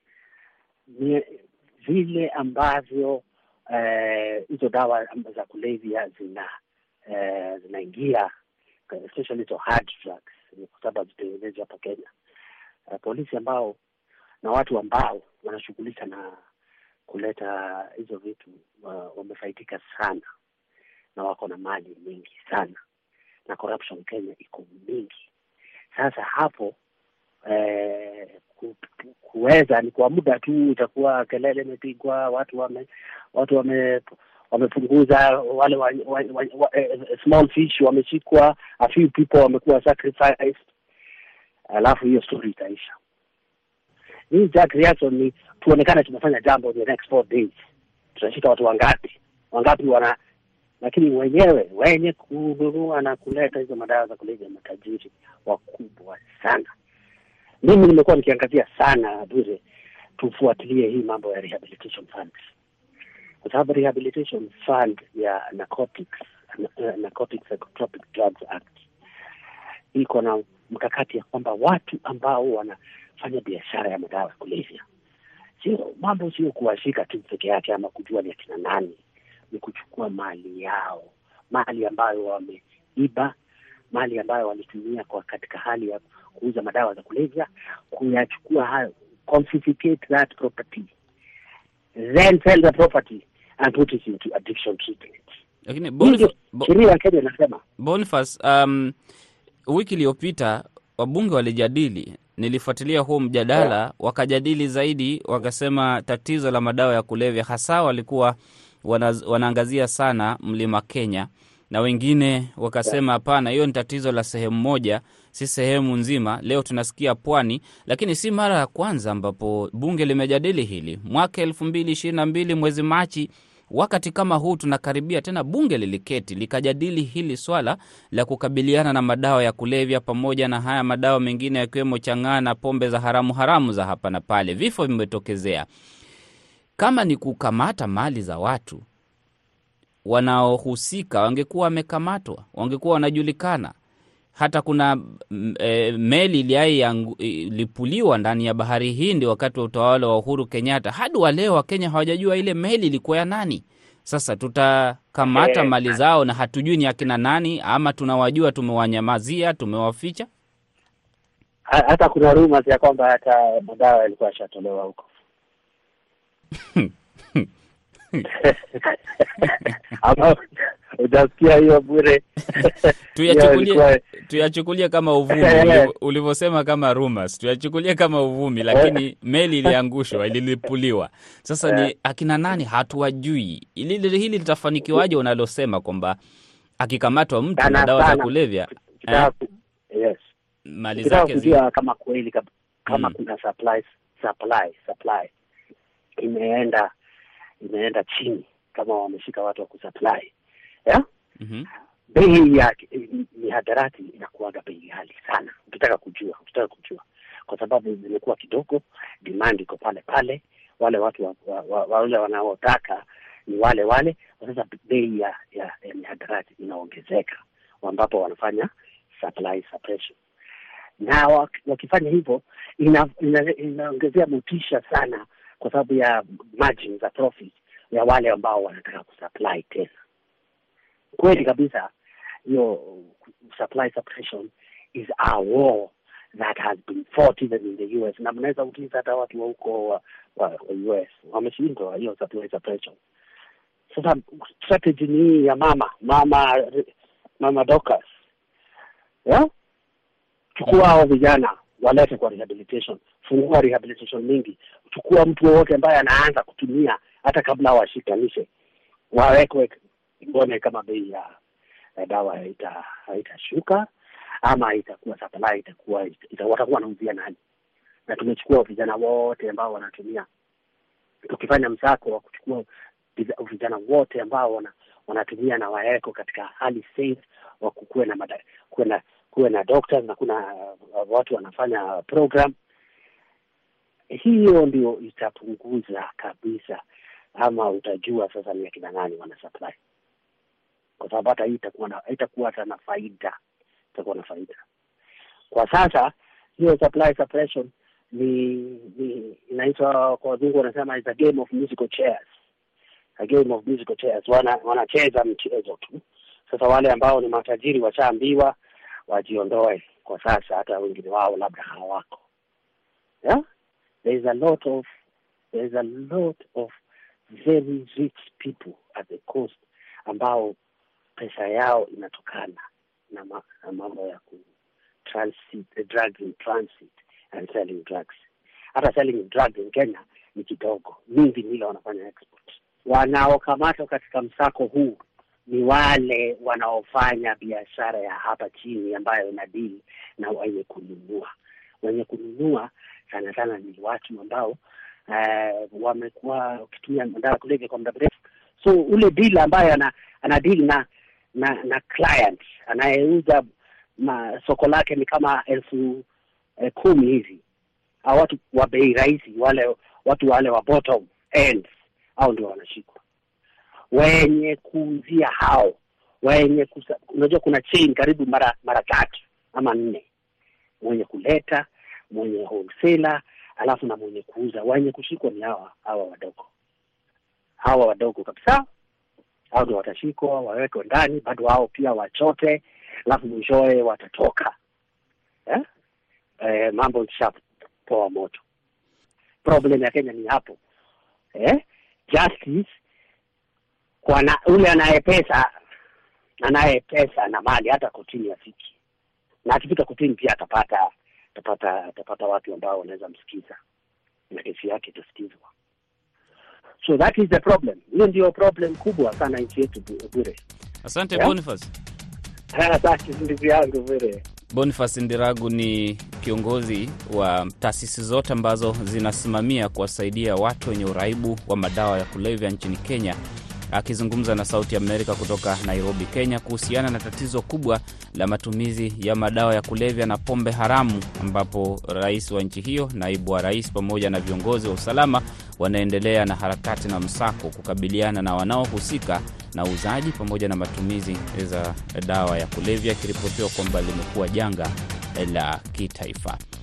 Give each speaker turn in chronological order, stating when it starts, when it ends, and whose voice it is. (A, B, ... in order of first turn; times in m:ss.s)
0:00.9-0:06.5 A
0:07.1-0:08.3 A
0:08.9-0:12.1 A
0:12.9-0:13.8 A
0:14.4-0:16.4 A
0:17.1-0:20.2 A
0:21.2-0:22.8 A
0:23.5-0:25.2 A
0:25.9-0:26.7 A
0:27.4-0:40.7 A
0:41.7-0:43.0 A
0:44.3-0:47.6 A
0:48.2-0:50.2 A
0:50.8-0:56.7 A
0:57.6-0:59.6 A
1:00.2-1:02.5 A
1:03.4-1:08.8 A
1:09.9-1:14.8 A
1:15.6-1:19.0 A
1:19.5-1:23.3 A
1:23.9-1:30.9 A
1:32.0-1:35.2 A
1:35.6-1:36.7 B
1:36.0-1:37.6 A
1:37.8-1:38.9 B
1:39.7-2:15.6 B
2:16.8-2:18.8 B
2:20.0-2:23.7 B
2:24.4-2:40.3 B
2:35.2-2:35.7 A
2:41.7-2:45.1 A
2:46.7-2:47.5 B
2:48.8-2:50.4 A
2:51.0-2:54.0 A
2:53.1-3:06.2 B
2:55.3-2:55.9 A
2:58.7-2:59.0 A
3:06.8-3:09.3 B
3:07.6-3:08.3 A
3:09.0-3:10.2 A
3:10.7-3:11.6 B
3:11.0-3:15.3 A
3:12.9-3:13.1 B
3:16.2-3:16.9 A
3:17.6-3:20.3 A
3:21.4-3:21.6 B
3:22.1-3:40.2 A
3:41.0-3:49.9 A
3:51.2-3:51.9 A
3:52.5-4:03.0 A
4:03.9-4:06.9 A
4:07.4-4:08.1 A
4:10.6-4:18.5 A
4:19.1-4:21.3 A
4:22.0-4:23.9 A
4:24.4-4:27.4 A
4:28.1-4:30.3 A
4:31.3-4:32.6 A
4:33.2-4:42.5 A
4:44.1-4:46.8 A
4:47.4-4:49.8 A
4:51.0-4:53.3 A
4:53.9-4:54.6 A
4:55.5-5:02.2 A
5:03.2-5:08.6 A
5:09.1-5:12.2 A
5:14.0-5:14.8 A
5:15.5-5:16.7 A
5:17.3-5:20.6 A
5:21.2-5:24.4 A
5:25.0-5:28.2 A
5:28.7-5:41.3 A
5:41.8-5:44.6 A
5:45.1-5:53.4 A
5:54.0-5:56.0 A
5:56.6-5:57.4 A
5:58.0-6:03.0 A
6:03.9-6:10.0 A
6:10.8-6:16.5 A
6:17.6-6:18.6 A
6:19.5-6:24.5 A
6:26.4-6:28.4 A
6:29.4-6:30.6 A
6:31.4-6:32.7 A
6:34.0-6:35.5 A
6:36.4-6:38.7 A
6:39.4-6:43.6 A
6:44.3-6:45.5 A
6:46.8-6:50.4 A
6:50.8-6:51.7 B
6:52.5-6:54.2 A
6:54.5-7:03.2 B
7:03.7-7:26.4 B